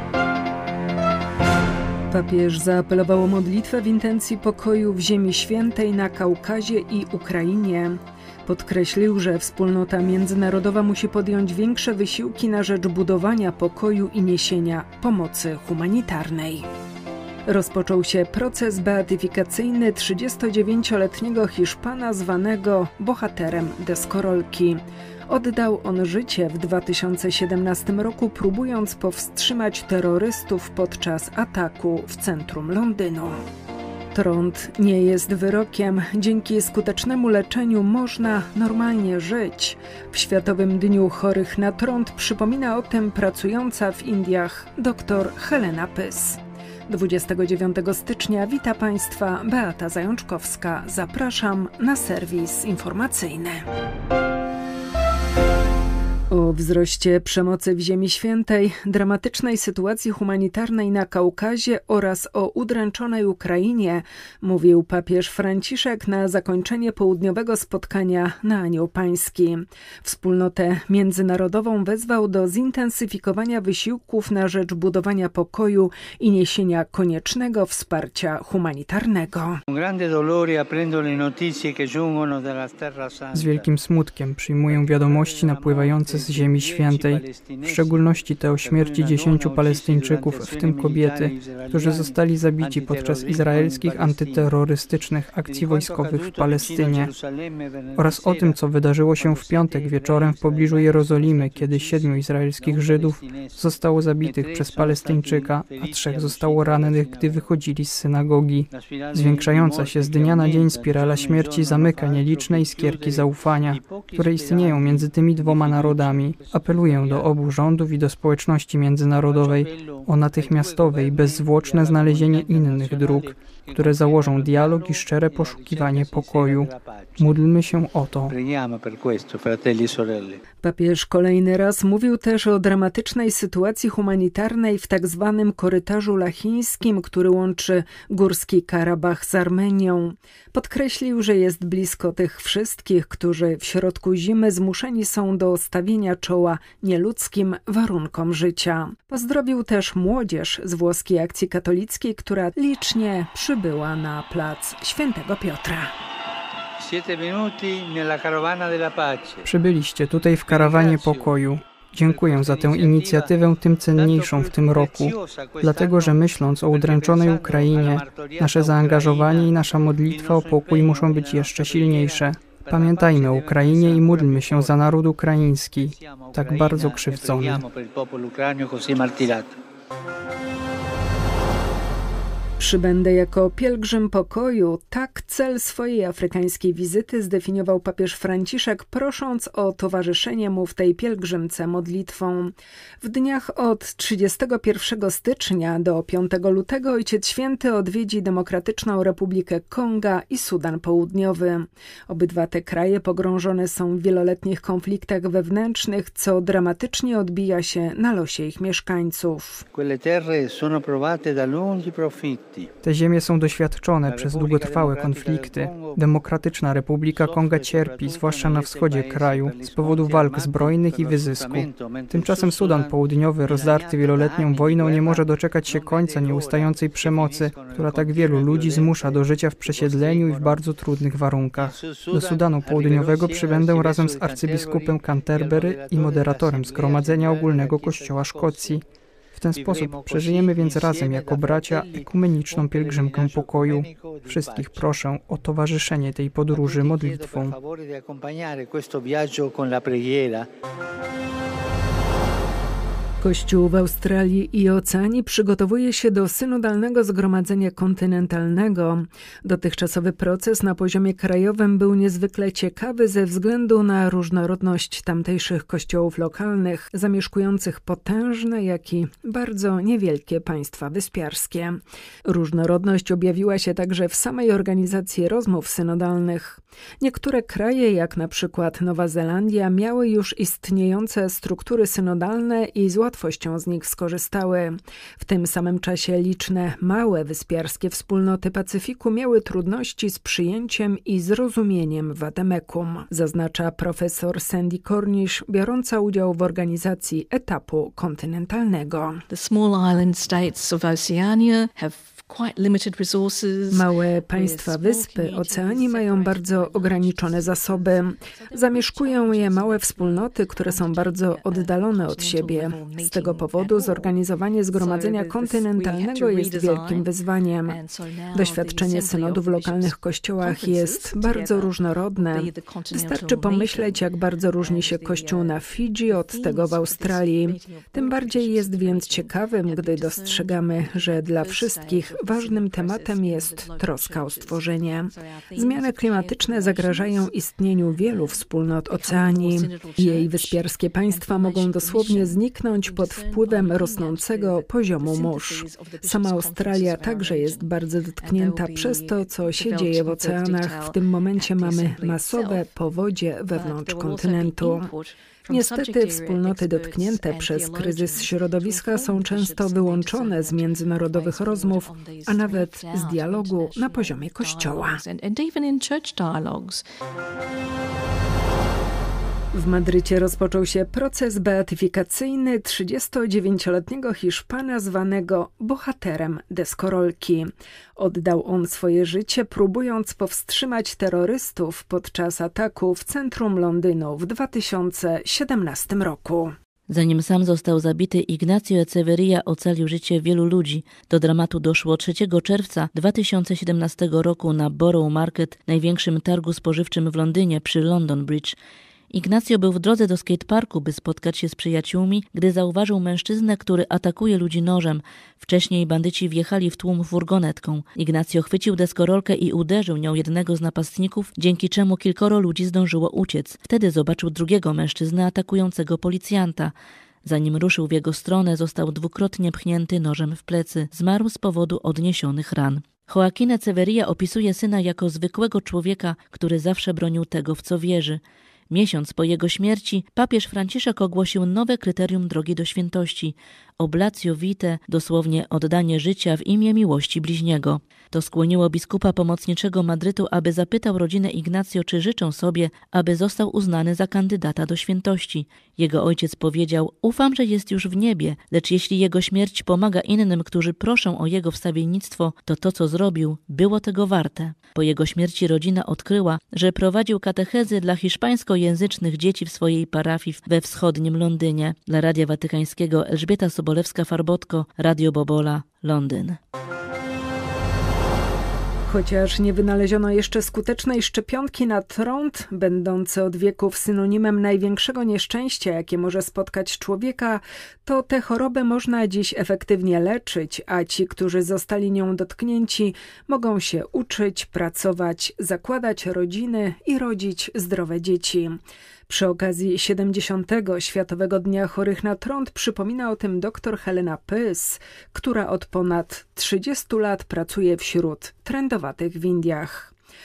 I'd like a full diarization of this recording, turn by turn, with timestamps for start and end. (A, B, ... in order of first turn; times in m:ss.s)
0:02.1-0:16.7 A
0:17.5-0:33.4 A
0:34.1-0:53.6 A
0:56.3-1:19.6 A
1:19.7-1:23.7 B
1:23.3-1:37.1 C
1:24.7-1:34.6 B
1:35.4-1:38.6 B
1:38.0-2:08.4 C
1:39.1-1:47.5 B
1:48.7-1:57.4 B
1:59.2-2:07.4 B
2:08.3-2:10.4 B
2:10.6-2:35.9 A
2:36.8-2:39.4 B
2:39.4-2:57.6 C
2:40.4-2:41.4 B
2:42.0-2:54.9 B
2:55.8-2:59.6 B
3:02.6-3:29.6 A
3:29.7-3:32.7 B
3:32.8-3:58.8 C
3:34.0-3:36.1 B
3:37.1-3:50.6 B
3:51.6-3:58.8 B
3:59.4-4:07.6 C
3:59.5-4:05.0 B
4:06.5-4:10.5 B
4:13.2-4:59.2 A
4:59.3-5:37.4 D
5:03.7-5:17.8 A
5:18.3-5:54.9 A
5:38.0-5:52.7 D
5:53.5-6:06.8 D
5:55.5-6:05.0 A
6:09.5-6:26.5 A
6:26.9-6:38.6 E
6:39.1-7:46.4 E
7:48.9-8:19.9 A